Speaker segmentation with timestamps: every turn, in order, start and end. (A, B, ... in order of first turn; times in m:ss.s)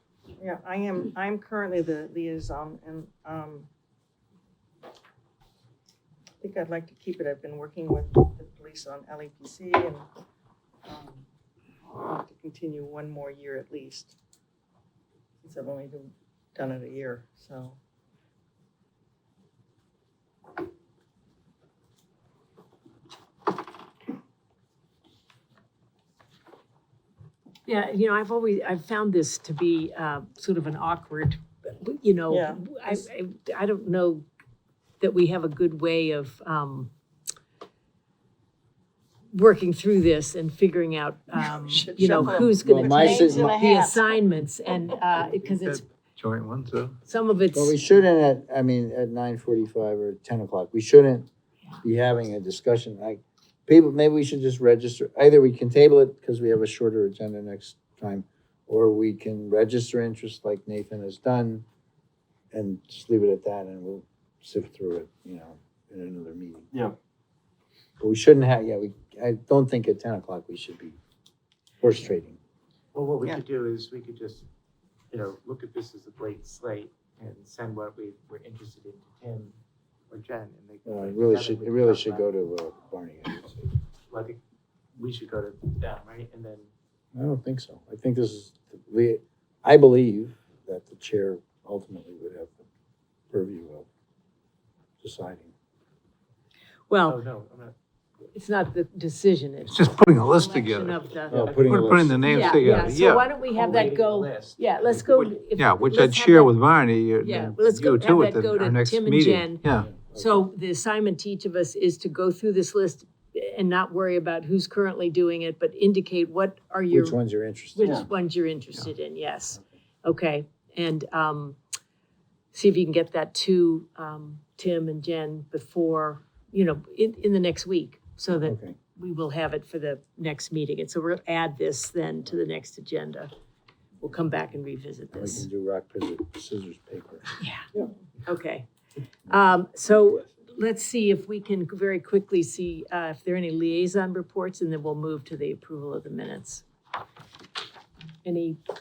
0:00.4-0:03.7 A
0:06.4-0:10.0 A
0:10.8-0:11.2 A
0:11.9-0:14.2 A
0:15.4-0:17.8 A
0:27.6-0:34.2 B
0:32.3-0:33.0 A
0:35.0-0:36.9 B
0:39.3-0:45.8 B
0:41.4-0:44.7 A
0:42.2-0:43.6 C
0:45.6-0:47.0 D
0:47.0-0:47.8 B
0:47.5-0:51.3 C
0:51.8-1:01.6 C
1:02.5-1:06.7 C
1:08.0-1:11.0 C
1:11.8-1:12.4 C
1:12.9-1:14.4 E
1:15.1-1:19.6 E
1:20.1-1:22.3 E
1:20.9-1:23.6 C
1:24.1-1:24.4 E
1:25.0-1:26.7 E
1:27.2-1:32.6 C
1:33.3-1:33.8 C
1:35.0-1:35.5 C
1:36.9-1:37.2 B
1:37.0-1:37.7 E
1:38.3-1:41.5 B
1:39.7-1:43.3 D
1:41.3-1:42.8 C
1:41.3-1:42.8 E
1:42.2-1:46.6 B
1:43.4-1:45.4 E
1:45.6-1:49.9 D
1:47.2-1:57.2 B
1:49.8-1:50.4 C
1:56.9-1:58.1 C
1:57.7-2:01.6 B
2:02.5-2:13.3 B
2:14.0-2:15.5 B
2:15.1-2:17.2 C
2:17.4-2:17.7 B
2:18.2-2:18.7 B
2:19.2-2:26.6 B
2:28.2-2:28.6 B